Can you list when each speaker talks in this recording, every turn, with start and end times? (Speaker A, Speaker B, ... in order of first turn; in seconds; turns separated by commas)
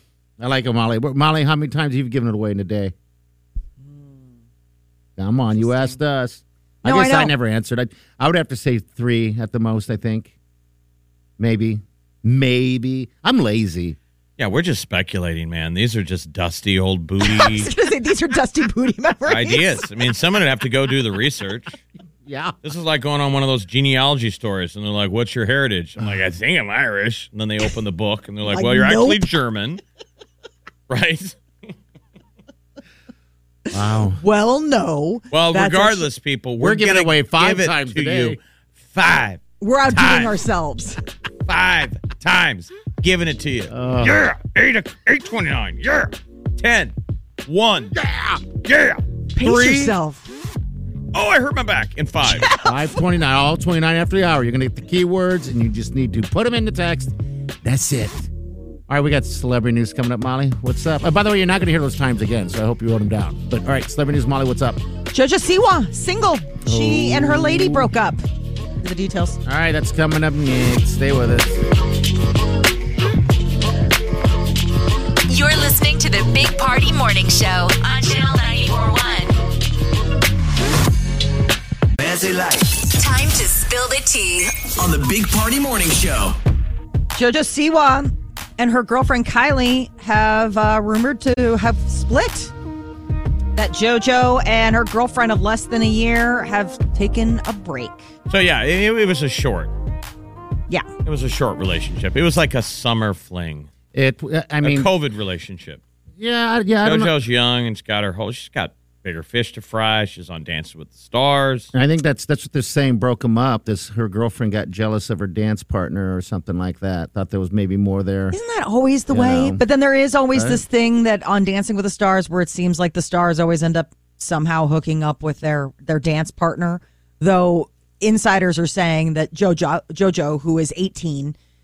Speaker A: 0.4-2.9, Speaker B: 3.8-4.3, Speaker A: 5.2-10.3, Speaker B: 5.6-6.0, Speaker B: 6.8-7.3, Speaker A: 11.4-14.0, Speaker C: 14.4-17.7, Speaker B: 17.2-19.8, Speaker C: 19.3-21.8, Speaker A: 22.2-22.6, Speaker C: 22.6-29.8, Speaker B: 28.5-29.3, Speaker C: 30.9-31.4, Speaker A: 33.7-34.2, Speaker B: 34.0-36.1, Speaker C: 35.3-40.4, Speaker A: 36.6-38.4, Speaker B: 39.6-41.0, Speaker C: 41.5-48.0, Speaker A: 43.7-44.2, Speaker A: 47.9-48.4, Speaker C: 48.6-50.0, Speaker B: 49.4-50.3, Speaker C: 51.1-52.5, Speaker B: 52.3-53.0, Speaker A: 52.6-58.3, Speaker A: 58.9-64.8, Speaker B: 65.1-68.2, Speaker A: 66.6-67.9, Speaker B: 68.8-69.4, Speaker A: 69.5-71.6, Speaker D: 75.3-79.4, Speaker E: 82.0-82.8, Speaker D: 83.0-84.5, Speaker E: 84.8-86.4, Speaker B: 87.1-92.5, Speaker B: 93.5-98.0, Speaker C: 98.3-99.7, Speaker C: 101.0-103.7, Speaker A: 103.9-104.9, Speaker C: 104.6-105.8, Speaker A: 106.2-107.1, Speaker C: 106.8-111.7, Speaker A: 111.7-118.4, Speaker B: 118.3-131.3, Speaker A: 119.1-119.6, Speaker A: 120.3-120.6